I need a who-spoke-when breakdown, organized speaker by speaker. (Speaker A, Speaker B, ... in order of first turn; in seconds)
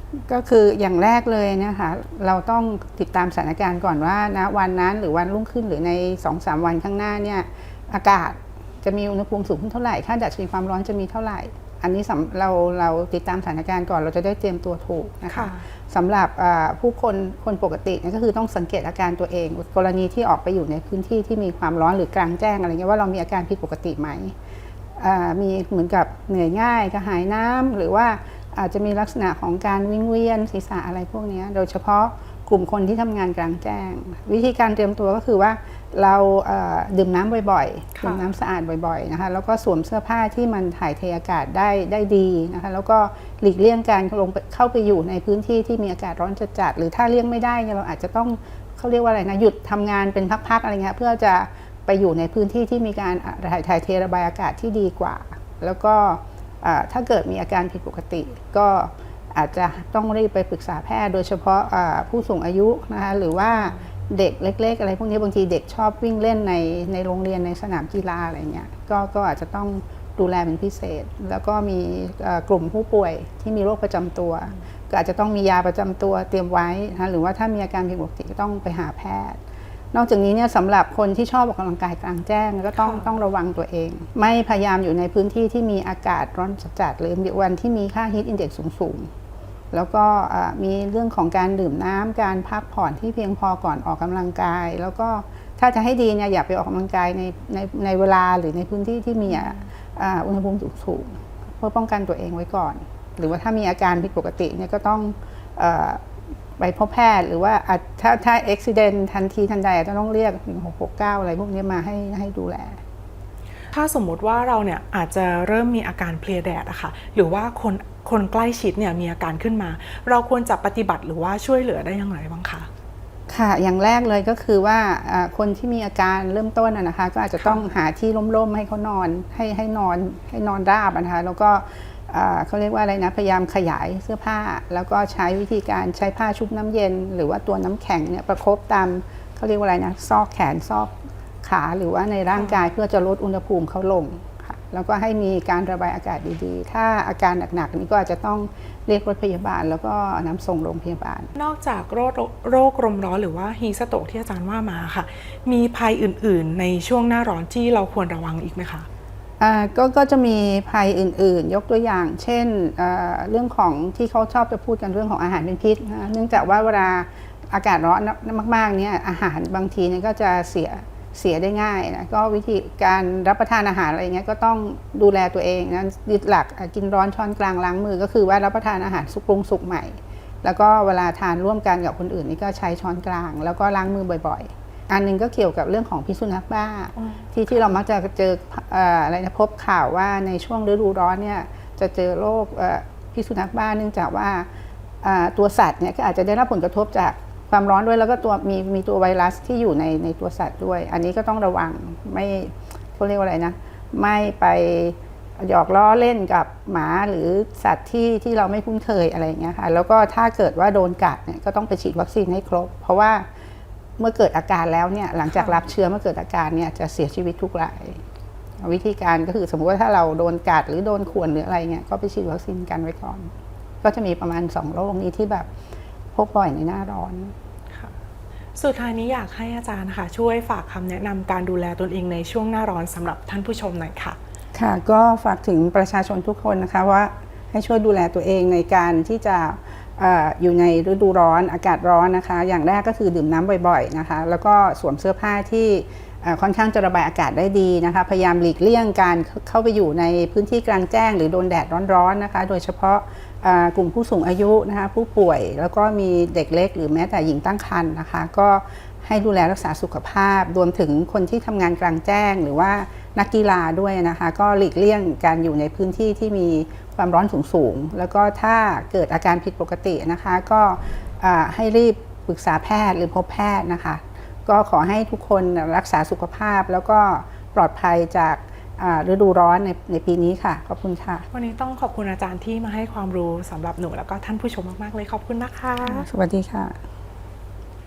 Speaker A: 0.2-24.4, 25.0-79.4, 79.9-89.1, 89.7-106.0, 106.6-112.8, 123.3-151.3, 159.4-194.5, 195.0-213.3, 214.0-218.0, 218.6-225.5, 226.1-227.3, 234.5-281.3, 285.8-286.8
Speaker B: 15.3-15.6, 38.0-38.3, 82.8-83.1, 113.7-122.7, 151.4-158.9, 187.0-187.2, 215.3-215.6, 228.6-234.2, 281.3-286.1